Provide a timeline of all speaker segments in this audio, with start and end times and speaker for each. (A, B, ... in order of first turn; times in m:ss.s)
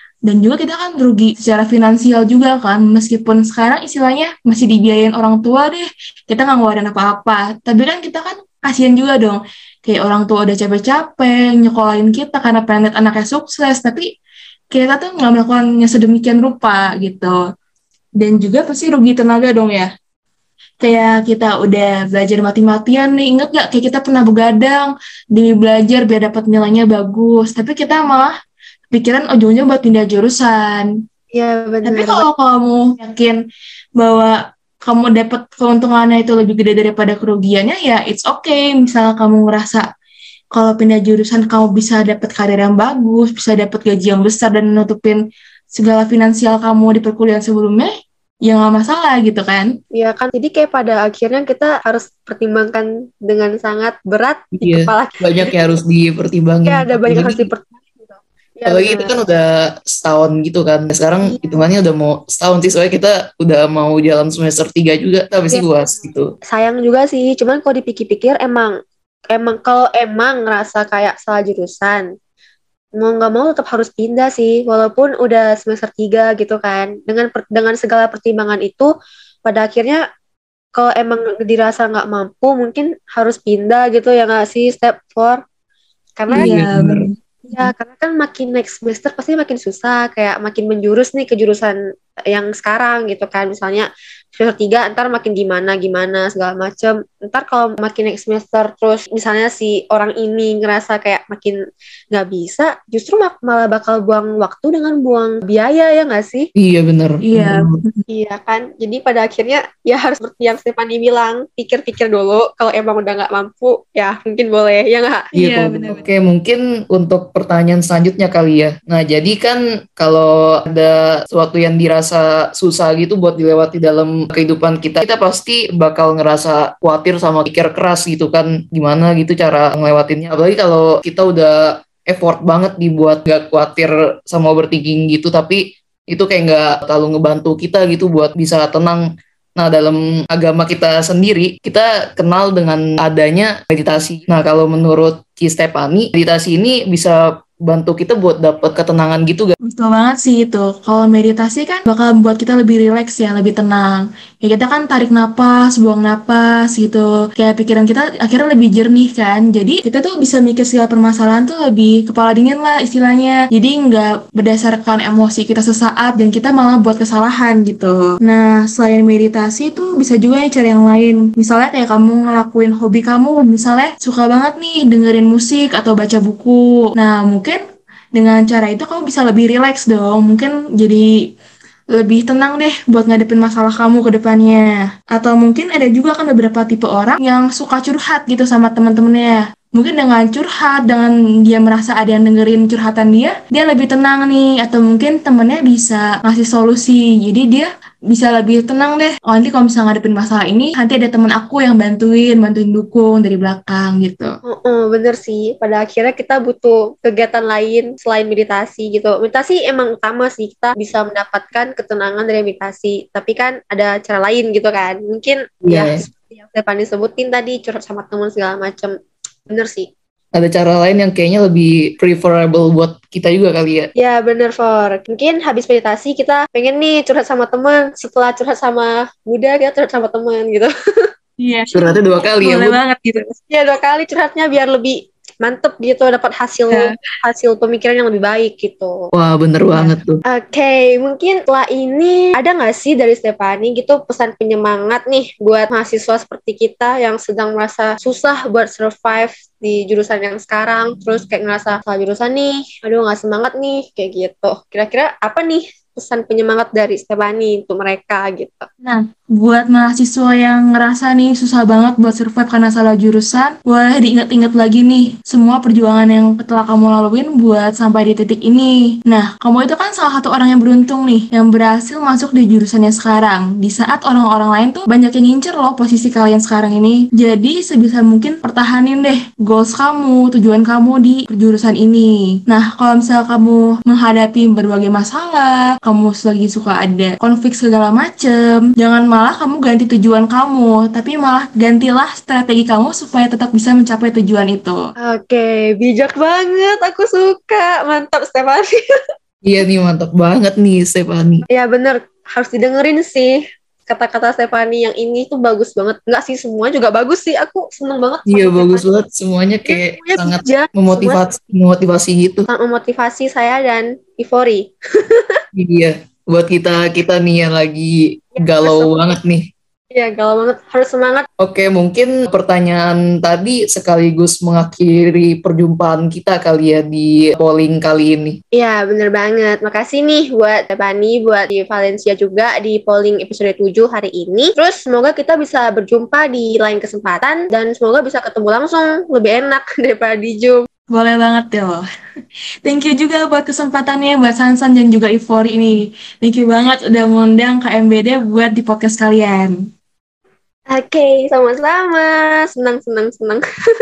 0:00.2-0:14.1 A
0:14.7-0:17.4 A
0:18.2-0:19.9 A
0:20.8-0:28.3 A
0:28.9-0:30.9 A
0:31.3-0:32.2 B
0:31.8-0:33.4 A
0:34.0-0:39.8 A
0:40.5-0:45.2 A
0:45.7-0:47.9 A
0:48.4-0:49.7 A
0:49.9-0:55.5 B
0:54.5-0:57.5 C
0:56.6-0:59.2 B
0:58.7-1:06.3 C
1:01.2-1:01.6 B
1:06.5-1:08.8 B
1:09.3-1:12.0 B
1:13.0-1:18.9 B
1:19.4-1:20.0 B
1:20.7-1:25.4 B
1:26.2-1:26.6 B
1:26.3-1:27.7 A
1:26.4-1:27.1 C
1:27.5-1:31.8 B
1:32.3-1:41.6 B
1:42.1-1:46.5 B
1:46.6-1:47.8 C
1:47.2-1:48.0 A
1:48.1-1:55.3 B
1:55.3-1:56.0 A
1:55.4-2:19.0 C
2:19.6-2:29.5 C
2:29.6-2:57.6 A
2:58.1-3:01.1 A
3:01.9-3:24.4 A
3:24.4-3:39.0 B
3:35.6-3:36.0 C
3:39.5-3:39.9 B
3:40.3-3:43.9 C
3:44.0-3:51.1 B
3:51.4-3:53.4 A
3:51.7-3:52.8 C
3:53.5-3:59.1 B
3:59.1-4:00.2 C
3:59.7-4:00.0 A
4:00.3-4:18.7 B
4:18.8-4:54.8 A
4:55.0-4:58.8 B
4:59.4-5:01.4 C
5:01.5-5:08.8 B
5:08.3-5:12.5 C
5:09.6-5:11.2 B
5:12.5-5:15.4 B
5:15.5-5:19.4 C
5:18.4-5:19.0 B
5:19.9-5:21.3 B
5:21.4-5:28.4 C
5:28.5-5:40.7 B
5:40.9-5:41.8 A
5:42.6-5:49.6 A
5:50.7-5:53.4 B